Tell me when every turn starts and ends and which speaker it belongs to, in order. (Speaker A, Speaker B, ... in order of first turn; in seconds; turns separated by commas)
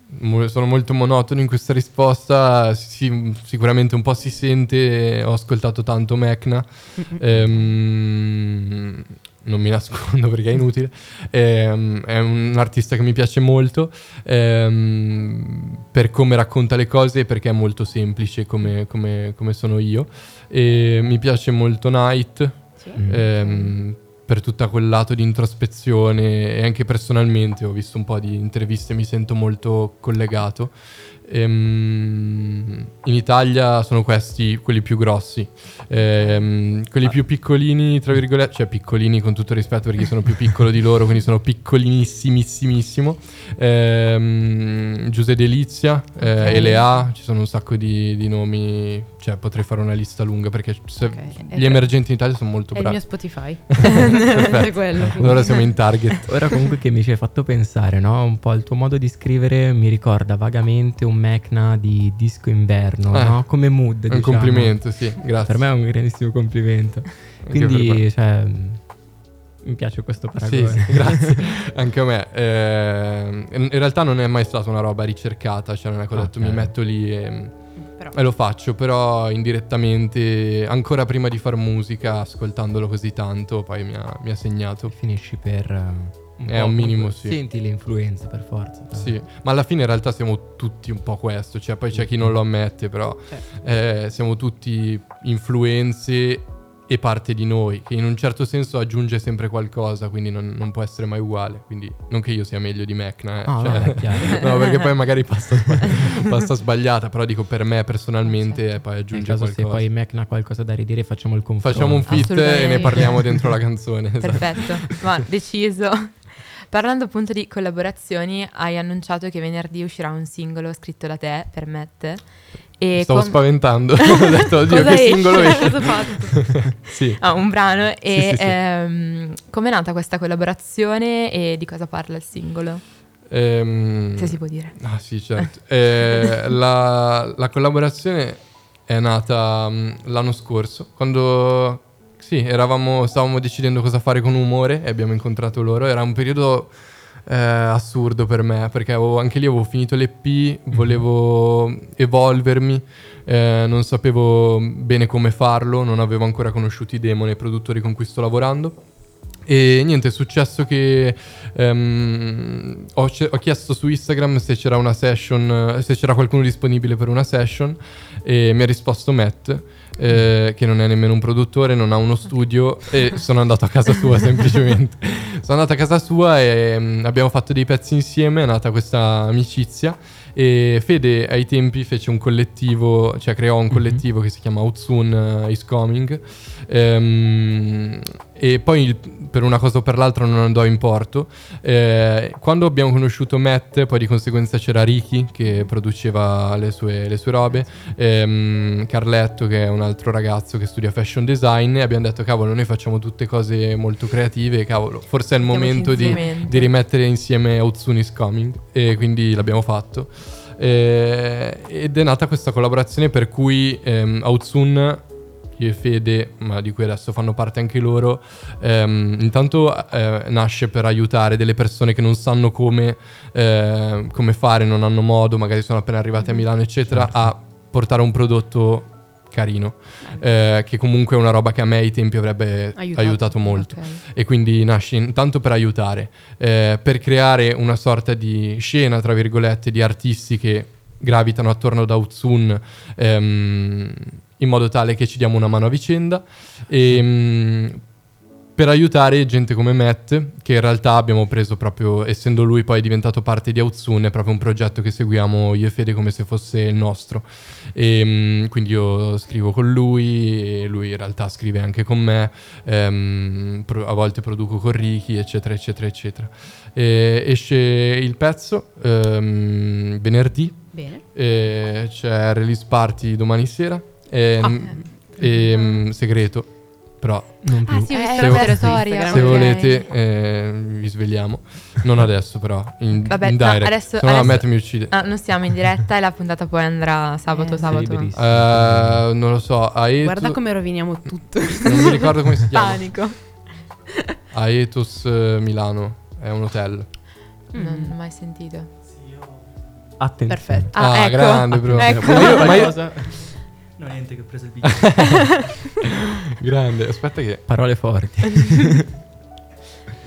Speaker A: 0.1-56.4, Speaker B: 7.0-7.6, Speaker B: 22.8-23.7, Speaker C: 23.0-23.3, Speaker B: 46.3-46.9, Speaker D: 46.4-46.9, Speaker B: 51.0-55.8, Speaker D: 53.9-54.5, Speaker C: 55.0-55.3, Speaker C: 56.3-69.1, Speaker A: 63.1-65.7, Speaker A: 67.4-68.1, Speaker C: 69.6-71.5, Speaker A: 70.4-84.9, Speaker C: 76.1-76.7, Speaker B: 77.8-78.2, Speaker C: 84.9-89.2, Speaker A: 86.5-87.4, Speaker A: 88.9-109.9, Speaker C: 91.9-92.3, Speaker C: 103.5-104.5, Speaker D: 108.3-108.8, Speaker C: 109.1-113.3, Speaker A: 111.6-114.9, Speaker D: 112.0-113.7, Speaker D: 114.2-125.9, Speaker A: 123.0-126.2, Speaker B: 124.7-126.8, Speaker A: 126.8-128.6, Speaker D: 127.2-132.8, Speaker A: 133.3-158.8, Speaker D: 134.2-134.8, Speaker A: 159.4-215.1, Speaker C: 183.7-184.0, Speaker D: 205.4-206.7, Speaker B: 205.9-206.4, Speaker A: 215.6-247.8, Speaker C: 226.9-227.3, Speaker B: 232.8-233.7, Speaker D: 233.6-234.0, Speaker A: 248.6-285.0, Speaker B: 270.7-271.0, Speaker B: 274.4-275.6, Speaker C: 277.4-277.9, Speaker B: 277.7-279.6, Speaker D: 277.9-279.9, Speaker D: 283.0-288.1, Speaker B: 287.3-287.8, Speaker C: 287.6-289.1, Speaker A: 288.1-290.4, Speaker B: 290.0-292.3, Speaker A: 291.6-293.1, Speaker D: 292.5-293.5, Speaker A: 294.3-297.1, Speaker B: 297.5-298.0, Speaker D: 297.5-298.7, Speaker E: 298.8-299.7, Speaker C: 300.0-303.3, Speaker B: 300.3-300.8, Speaker D: 300.7-302.7, Speaker A: 300.8-303.0, Speaker E: 302.6-305.4, Speaker A: 304.6-305.4, Speaker A: 306.3-308.0, Speaker C: 307.5-308.8